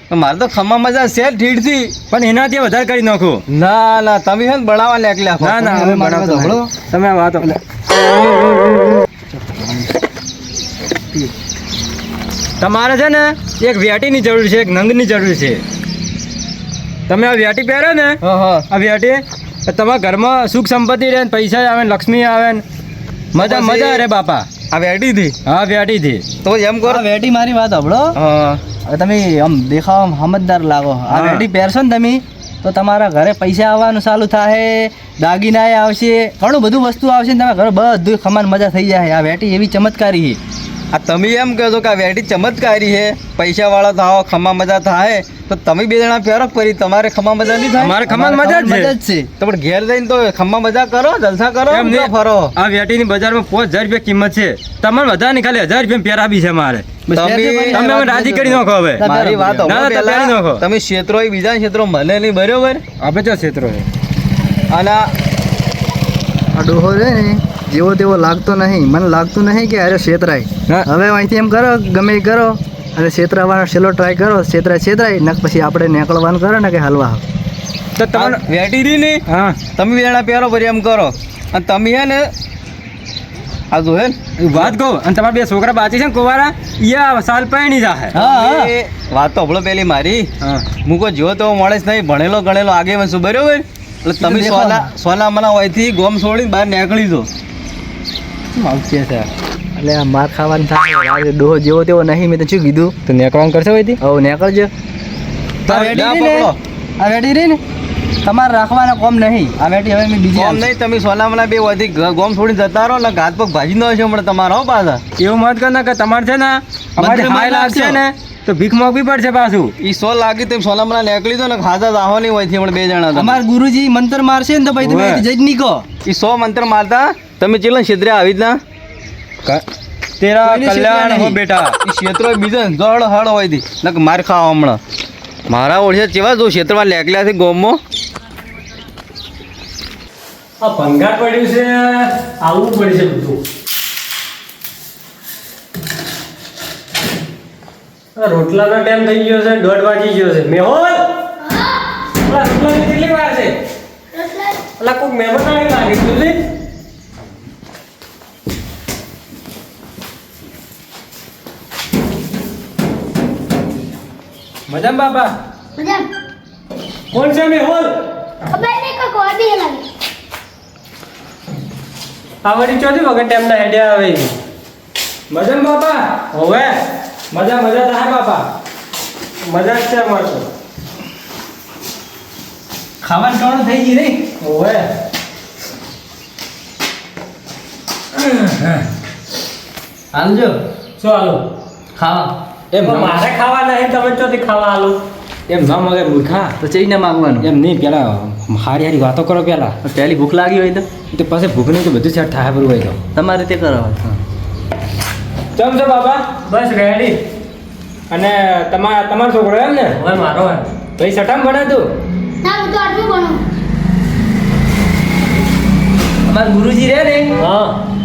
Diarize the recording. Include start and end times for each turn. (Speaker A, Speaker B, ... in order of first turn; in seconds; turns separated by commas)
Speaker A: 0.1-1.9, Speaker B: 2.1-3.4, Speaker A: 3.5-5.9, Speaker B: 5.4-7.5, Speaker C: 5.7-6.7, Speaker C: 9.3-9.9, Speaker B: 12.6-15.6, Speaker B: 17.1-22.6, Speaker A: 18.2-18.6, Speaker B: 23.3-24.5, Speaker A: 23.4-24.0, Speaker A: 24.7-25.3, Speaker B: 25.4-26.2, Speaker A: 26.4-27.0, Speaker C: 26.8-28.1, Speaker A: 28.1-28.6, Speaker C: 28.8-40.4, Speaker B: 31.1-31.4, Speaker A: 40.9-48.0, Speaker B: 47.8-48.9, Speaker C: 47.8-49.3, Speaker A: 49.4-52.5, Speaker B: 51.7-56.9, Speaker C: 57.1-59.7, Speaker A: 57.1-57.8, Speaker B: 57.7-59.0, Speaker A: 59.0-62.8, Speaker B: 59.6-60.6, Speaker B: 63.0-63.9, Speaker A: 64.7-65.1, Speaker C: 66.5-77.2, Speaker B: 78.0-78.4, Speaker A: 78.1-79.2, Speaker B: 79.3-79.6, Speaker A: 79.8-82.3, Speaker A: 83.7-84.7, Speaker B: 84.4-88.1, Speaker C: 88.1-88.7, Speaker A: 88.2-90.3, Speaker B: 90.4-90.7, Speaker A: 90.8-97.3, Speaker C: 94.2-94.9, Speaker B: 98.5-99.3, Speaker C: 99.8-102.9, Speaker B: 103.1-104.0, Speaker C: 104.0-104.7, Speaker C: 105.7-107.6, Speaker A: 105.7-106.5, Speaker C: 108.2-110.7, Speaker A: 110.3-115.0, Speaker B: 115.2-119.7, Speaker C: 117.0-118.0, Speaker A: 119.8-123.4, Speaker C: 123.1-125.8, Speaker B: 124.8-125.2, Speaker A: 126.0-128.6, Speaker B: 130.2-131.7, Speaker C: 130.4-131.4, Speaker A: 131.8-134.8, Speaker A: 135.5-137.8, Speaker D: 140.6-143.4, Speaker D: 148.2-151.0, Speaker E: 151.4-151.8, Speaker D: 152.2-153.5, Speaker E: 154.1-154.6, Speaker D: 154.8-156.3, Speaker B: 164.7-165.3, Speaker E: 165.8-166.1, Speaker D: 167.1-167.9, Speaker E: 168.5-169.8, Speaker D: 172.4-174.3, Speaker B: 175.3-176.2, Speaker D: 176.3-176.7, Speaker B: 177.3-178.4, Speaker D: 179.5-180.4, Speaker C: 183.0-184.2, Speaker D: 184.4-184.8, Speaker B: 188.2-188.8, Speaker C: 190.1-190.6, Speaker D: 191.0-191.4, Speaker C: 191.9-192.3, Speaker B: 192.7-193.2, Speaker D: 192.8-194.9, Speaker B: 195.5-196.5, Speaker C: 196.6-197.5, Speaker B: 197.4-199.7, Speaker C: 199.8-200.8, Speaker B: 201.1-203.0, Speaker C: 203.1-204.2, Speaker B: 205.6-206.2, Speaker D: 206.4-207.2, Speaker B: 208.1-209.9, Speaker D: 209.9-210.7, Speaker B: 211.0-211.9, Speaker E: 212.4-213.4, Speaker C: 216.3-217.3, Speaker D: 217.4-217.7